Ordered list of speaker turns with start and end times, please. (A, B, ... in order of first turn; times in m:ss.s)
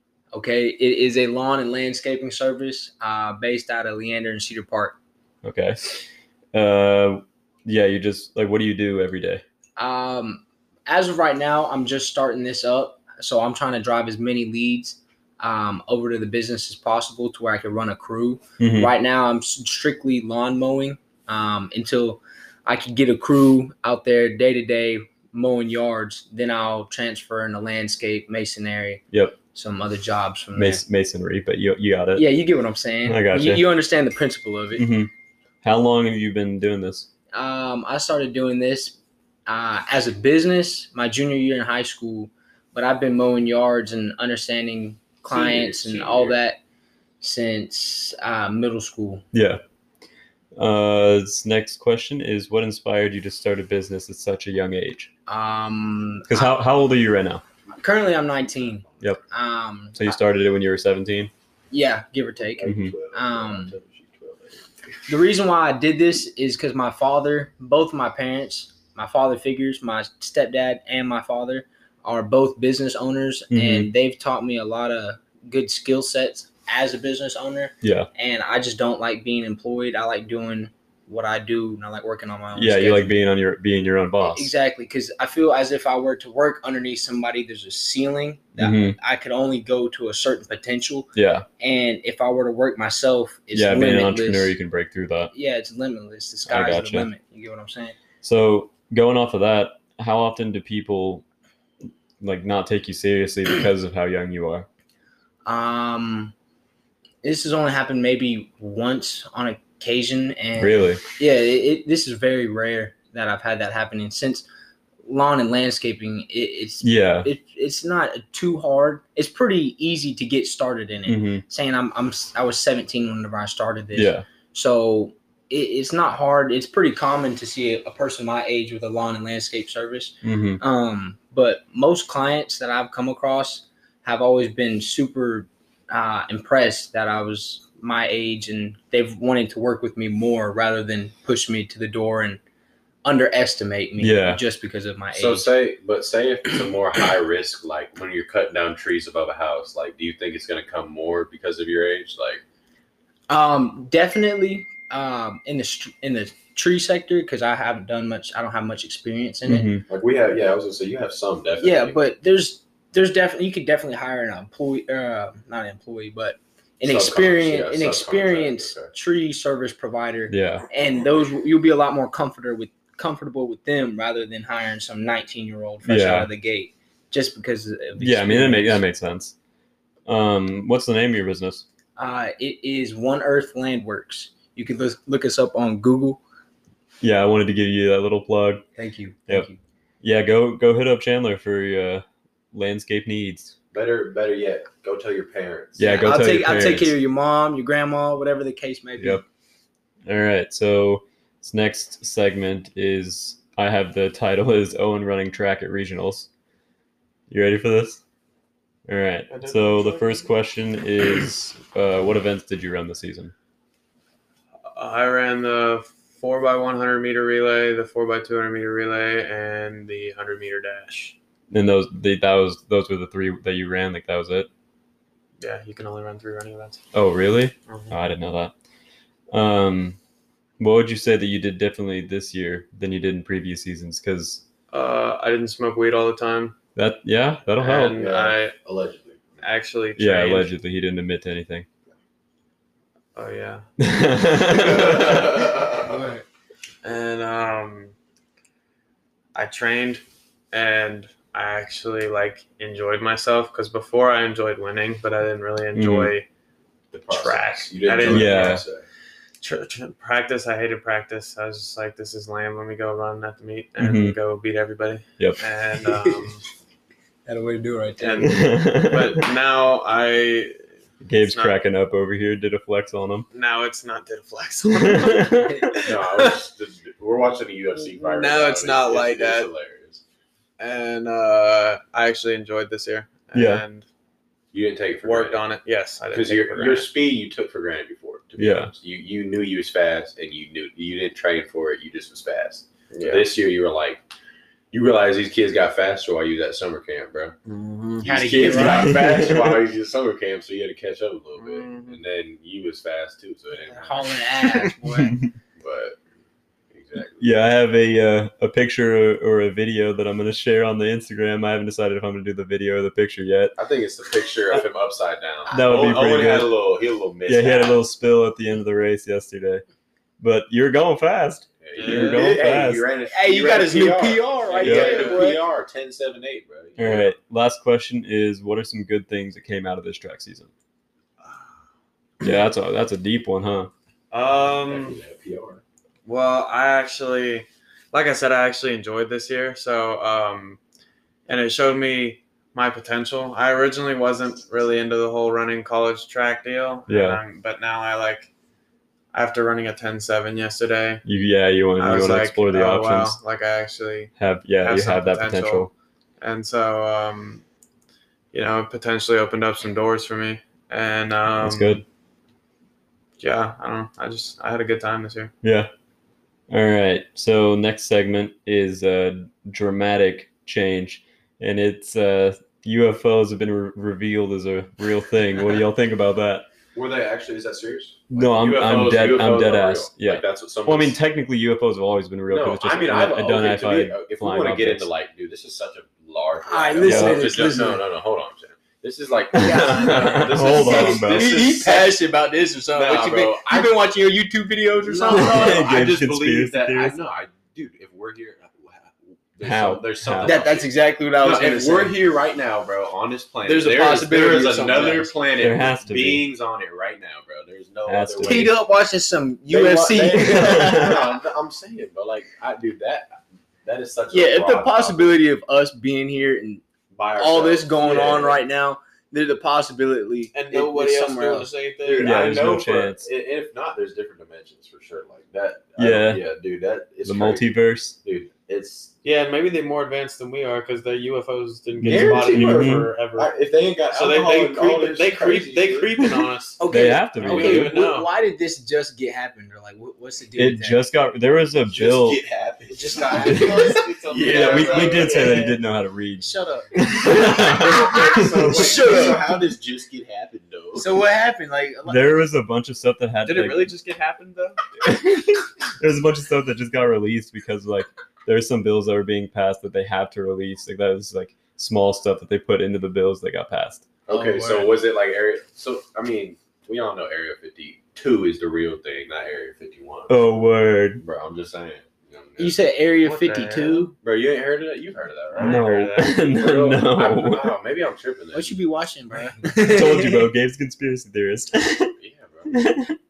0:00.3-0:05.0 A
0:05.4-0:09.4 B
0:09.8-0:30.8 A
0:18.6-0:18.9 B
0:30.5-0:32.3 B
0:32.2-0:34.9 A
0:33.0-0:33.7 B
0:34.8-0:35.1 B
0:35.6-0:37.1 B
0:37.3-0:46.6 A
0:45.3-0:46.4 C
0:47.2-0:49.2 A
0:49.3-0:49.6 B
0:50.6-0:55.1 B
0:55.3-0:56.6 A
0:56.3-0:57.4 B
0:57.8-1:00.2 A
0:59.9-1:01.3 B
1:01.7-1:03.8 A
1:02.6-1:05.1 C
1:02.6-1:02.9 B
1:05.1-1:23.1 A
1:13.5-1:13.9 B
1:17.8-1:18.1 B
1:22.6-1:24.5 B
1:24.2-1:31.1 A
1:28.6-1:29.0 B
1:31.2-1:31.5 B
1:31.6-1:34.6 A
1:33.5-1:35.3 B
1:35.3-1:38.0 A
1:36.5-1:37.1 B
1:38.2-1:41.2 B
1:42.2-1:44.7 B
1:45.4-1:46.3 A
1:47.2-1:54.5 A
1:50.6-1:51.0 B
1:55.0-2:22.4 A
1:56.8-1:57.3 B
2:01.1-2:01.4 B
2:04.0-2:04.2 B
2:10.2-2:10.6 B
2:23.0-2:25.5 A
2:24.0-2:24.4 B
2:25.1-2:32.4 C
2:33.3-2:39.8 A
2:39.5-2:39.8 B
2:39.9-2:42.0 C
2:41.6-2:58.8 A
2:46.8-2:48.9 C
2:50.3-2:50.7 B
2:55.8-2:56.3 B
2:58.0-2:59.4 B
3:00.1-3:01.6 B
3:02.0-3:06.2 A
3:07.0-3:08.6 B
3:08.8-3:09.6 A
3:10.0-3:13.5 B
3:13.7-3:16.1 C
3:15.8-3:17.0 B
3:15.8-3:19.2 A
3:19.0-3:19.2 B
3:20.1-3:26.3 B
3:27.3-3:28.0 B
3:28.9-3:33.3 B
3:29.3-3:30.3 D
3:34.7-3:41.2 D
3:41.5-3:44.5 B
3:45.4-3:46.8 D
3:46.9-3:48.5 B
3:47.7-3:48.0 D
3:49.3-3:50.0 B
3:50.6-3:54.4 B
3:54.7-3:56.6 D
3:56.8-3:58.1 B
3:57.6-3:58.6 D
3:57.9-3:59.5 C
3:59.4-4:00.5 D
4:00.0-4:01.7 B
4:03.2-4:03.7 D
4:03.8-4:05.4 B
4:04.5-4:06.0 C
4:05.8-4:06.2 A
4:06.8-4:07.9 D
4:09.4-4:16.2 D
4:15.8-4:16.1 B
4:16.9-4:18.8 C
4:17.1-4:18.6 D
4:18.0-4:18.6 B
4:19.4-4:26.4 D
4:23.8-4:24.2 B
4:27.2-4:28.5 A
4:28.0-4:30.6 D
4:28.2-4:29.2 B
4:31.0-4:33.2 B
4:31.2-4:31.6 D
4:33.3-4:36.4 D
4:34.9-4:35.4 B
4:35.2-4:36.0 A
4:35.8-4:40.0 C
4:38.0-4:39.5 D
4:40.6-4:43.9 D
4:43.4-4:43.6 B
4:44.5-4:45.4 C
4:45.0-4:46.9 D
4:46.1-4:54.0 C
4:48.4-4:48.7 B
4:52.9-4:53.3 D
4:54.7-4:57.4 C
4:57.5-4:58.2 D
4:58.0-5:04.2 C
4:58.0-4:59.0 A
4:58.6-4:59.6 B
5:01.4-5:02.0 D
5:03.8-5:05.2 A
5:05.0-5:05.3 B
5:05.6-5:06.0 C
5:06.7-5:07.4 C
5:07.2-5:13.6 B
5:13.6-5:17.8 C
5:15.5-5:16.6 B
5:15.5-5:15.9 A
5:17.2-5:19.6 B
5:20.2-5:22.9 B
5:21.6-5:27.2 C
5:21.8-5:22.4 D
5:23.1-5:25.4 A
5:24.6-5:25.0 B
5:24.6-5:25.2 D
5:26.8-5:30.5 B
5:31.2-5:31.5 C
5:32.2-5:33.7 B
5:34.1-5:35.0 D
5:34.4-5:35.6 C
5:36.1-5:40.6 D
5:41.3-5:48.3 D
5:46.9-5:47.2 B
5:49.1-5:51.0 D
5:51.0-5:53.2 B
5:51.8-5:55.7 D
5:54.2-5:55.7 B
5:56.2-5:57.4 D
5:58.3-6:01.8 D
6:01.4-6:01.8 B
6:03.2-6:05.3 D
6:05.4-6:05.7 B
6:06.5-6:16.5 B
6:16.7-6:21.0 C
6:18.1-6:24.9 B
6:22.3-6:32.0 C
6:26.4-6:27.8 A
6:26.8-6:27.4 B
6:29.3-6:31.4 B
6:29.4-6:35.7 A
6:32.7-6:33.8 C
6:34.8-6:40.7 C
6:35.1-6:37.0 B
6:39.4-6:40.4 B
6:40.2-6:42.0 A
6:41.2-6:48.6 C
6:43.4-6:45.5 A
6:45.4-6:46.3 B
6:47.8-6:48.6 B
6:48.2-6:51.1 A
6:49.5-6:55.2 C
6:50.3-6:51.0 B
6:54.1-6:56.6 A
6:56.9-6:58.4 C
6:57.2-7:01.5 A
7:00.3-7:02.2 D
7:01.8-7:08.9 C
7:02.0-7:03.1 B
7:05.8-7:06.2 B
7:07.0-7:08.0 B
7:09.0-7:13.3 D
7:11.8-7:12.9 B
7:11.8-7:16.0 C
7:13.9-7:16.6 D
7:16.6-7:20.9 A
7:16.7-7:17.8 B
7:17.2-7:18.1 D
7:20.4-7:22.2 B
7:21.7-7:25.2 C
7:22.7-7:24.4 A
7:23.0-7:25.6 D
7:23.2-7:23.6 B
7:24.3-7:28.6 B
7:25.0-7:25.4 A
7:26.2-7:29.4 A
7:27.1-7:31.0 C
7:30.8-7:32.3 A
7:31.9-7:33.7 B
7:33.2-7:34.6 D
7:34.8-7:43.8 B
7:44.1-7:50.2 C
7:44.1-7:44.8 A
7:50.1-7:51.0 B
7:51.0-7:52.6 C
7:52.4-7:53.9 A
7:53.0-7:53.9 D
7:54.0-7:55.6 C
7:55.3-7:56.3 D
7:55.4-7:57.6 B
7:56.3-7:58.6 C
7:58.3-8:00.3 A
7:59.2-7:59.6 D
7:59.6-8:01.9 B
8:02.0-8:02.6 C
8:02.5-8:03.0 B